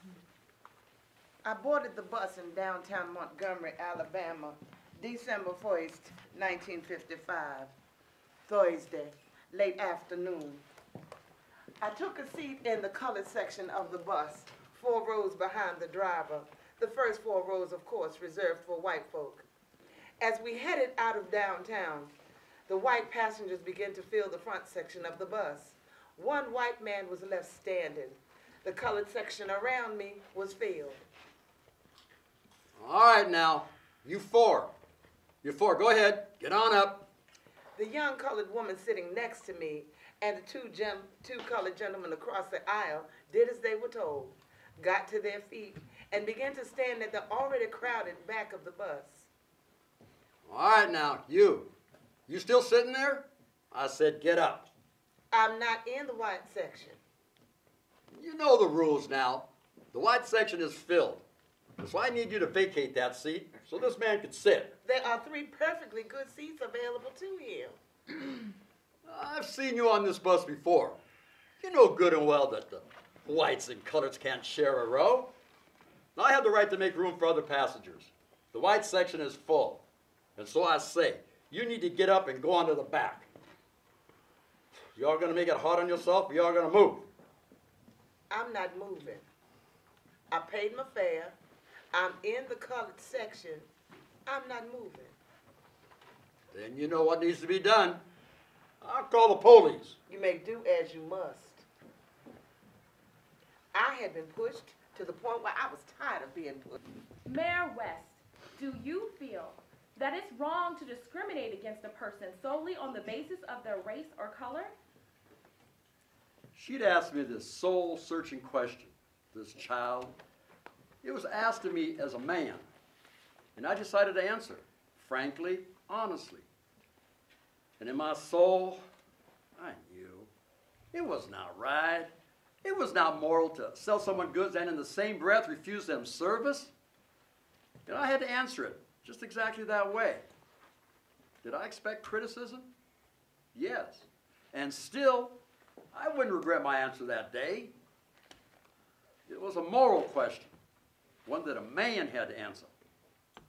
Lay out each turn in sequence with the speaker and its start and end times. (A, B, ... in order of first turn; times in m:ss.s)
0:01.4-0:07.7 A
0:08.5-0:10.6 A
0:11.8-0:19.5 A
0:20.2-0:22.1 A
0:22.7-0:31.1 A
0:32.8-0:34.7 B
0:35.4-0:37.1 B
0:37.8-0:49.3 A
0:50.5-0:51.7 B
0:52.3-0:54.7 B
0:55.3-0:57.0 A
0:58.1-1:01.2 B
1:01.8-1:04.7 B
1:04.8-1:07.8 A
1:09.0-1:11.0 B
1:11.6-1:15.3 B
1:16.2-1:19.8 B
1:20.4-1:23.3 B
1:24.9-1:27.0 B
1:28.3-1:29.3 A
1:30.3-1:31.4 A
1:31.9-1:33.7 A
1:34.3-1:35.2 A
1:36.5-1:38.0 B
1:38.8-1:40.0 B
1:40.1-1:41.7 A
1:43.7-1:46.8 A
1:47.2-1:54.7 C
1:56.5-2:00.2 B
2:01.0-2:02.6 B
2:03.6-2:06.4 B
2:07.8-2:08.8 B
2:09.6-2:10.3 B
2:10.9-2:12.1 B
2:12.6-2:16.7 B
2:17.9-2:20.3 B
2:21.4-2:22.7 B
2:23.5-2:25.4 B
2:25.9-2:27.7 B
2:29.3-2:30.6 B
2:31.2-2:32.7 B